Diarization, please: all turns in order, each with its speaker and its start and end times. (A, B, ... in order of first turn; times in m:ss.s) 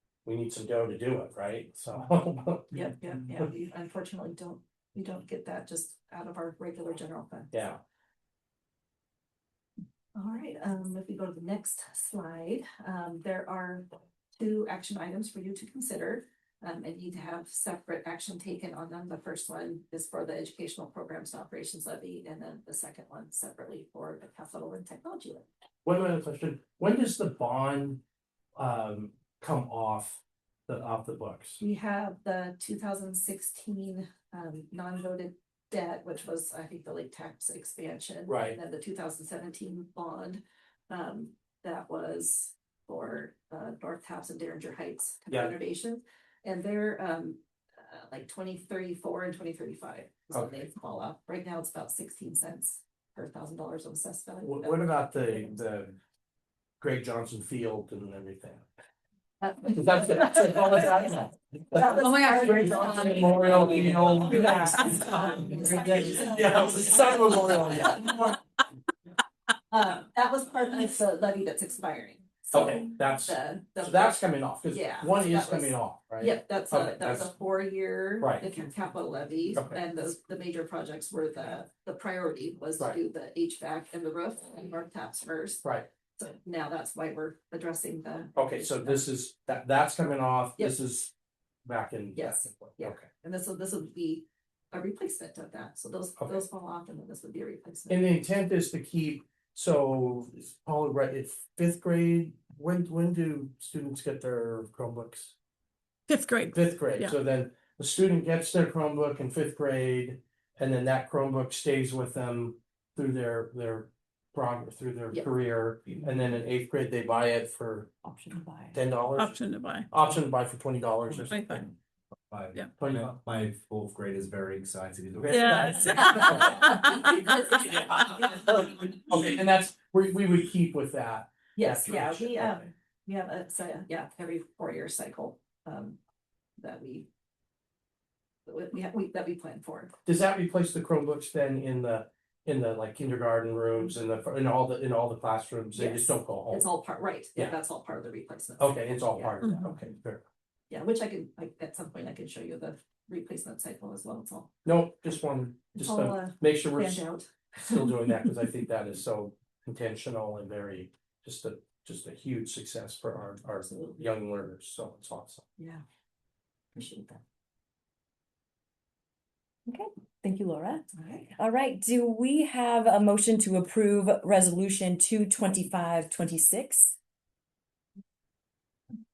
0:00.2-0:03.4 A
0:02.7-0:07.5 B
0:07.5-0:07.8 A
0:10.1-0:25.5 B
0:25.8-0:28.0 A
0:28.6-0:31.6 A
0:31.6-0:55.2 B
0:38.3-0:38.6 A
0:50.3-0:50.6 A
0:54.4-0:56.0 A
0:56.8-0:58.6 A
0:59.4-1:00.5 B
0:59.6-1:08.4 A
1:01.7-1:08.3 B
1:02.0-1:03.3 C
1:09.7-1:25.6 B
1:12.5-1:17.3 A
1:18.2-1:18.4 A
1:26.2-1:29.1 B
1:28.4-1:31.1 A
1:31.6-1:33.1 A
1:32.1-1:38.1 B
1:36.2-1:36.4 A
1:37.9-1:45.4 A
1:46.1-1:47.2 D
1:46.5-1:57.9 A
1:58.0-1:58.8 B
1:58.7-1:59.4 A
1:59.1-1:59.9 D
1:59.9-2:01.6 A
2:01.2-2:01.7 D
2:02.3-2:06.0 E
2:02.8-2:03.1 A
2:05.3-2:07.1 D
2:05.3-2:06.6 A
2:06.0-2:07.3 B
2:07.5-2:12.7 A
2:07.7-2:08.2 D
2:08.2-2:08.4 B
2:11.6-2:16.0 B
2:16.6-2:17.1 B
2:18.4-2:20.0 B
2:20.0-2:26.7 A
2:25.7-2:29.4 B
2:28.6-2:30.2 A
2:29.4-2:29.8 D
2:30.7-2:34.5 B
2:34.6-2:45.4 A
2:35.7-2:38.2 B
2:43.6-2:44.1 B
2:45.6-2:45.8 B
2:46.7-2:47.2 B
2:49.7-2:50.8 C
2:50.9-2:51.3 B
2:51.4-2:56.9 C